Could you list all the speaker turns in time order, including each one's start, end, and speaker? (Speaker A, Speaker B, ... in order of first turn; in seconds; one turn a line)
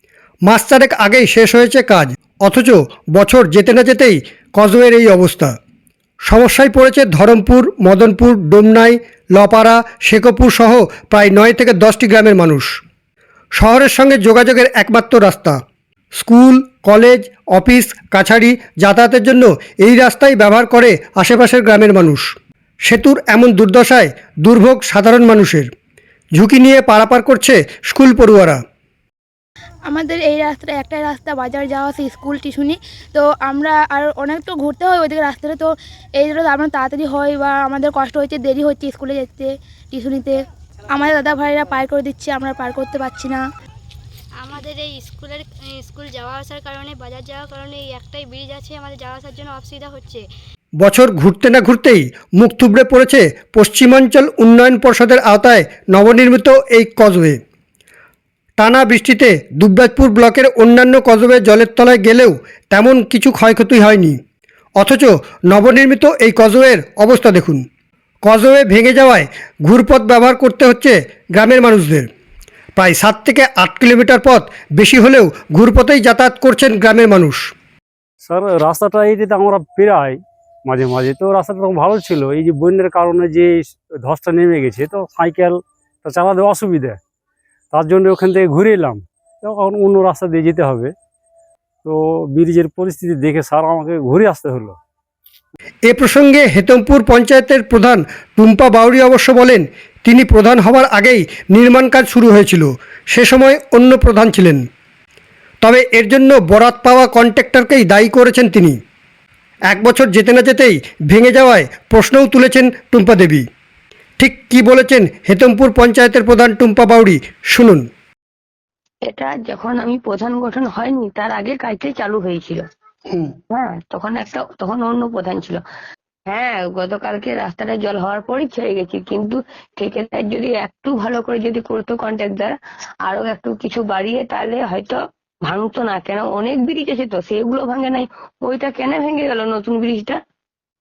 Speaker A: 0.5-5.5
Speaker A: 6.2-12.8
Speaker A: 13.6-15.6
Speaker A: 16.2-22.3
Speaker A: 22.9-25.7
Speaker A: 26.4-28.6
Speaker B: 29.9-40.4
Speaker B: 40.9-43.4
Speaker C: 44.4-50.2
Speaker A: 50.8-57.4
Speaker A: 58.6-64.2
Speaker A: 64.8-67.6
Speaker A: 68.2-72.1
Speaker A: 72.8-77.5
Speaker D: 78.2-80.2
Speaker D: 80.7-83.5
Speaker D: 84.0-87.0
Speaker D: 87.7-90.9
Speaker D: 91.8-94.8
Speaker A: 95.8-104.7
Speaker A: 105.6-108.8
Speaker A: 109.7-113.5
Speaker A: 114.2-117.9
Speaker E: 119.0-122.6
Speaker E: 123.5-125.6
Speaker E: 126.3-140.2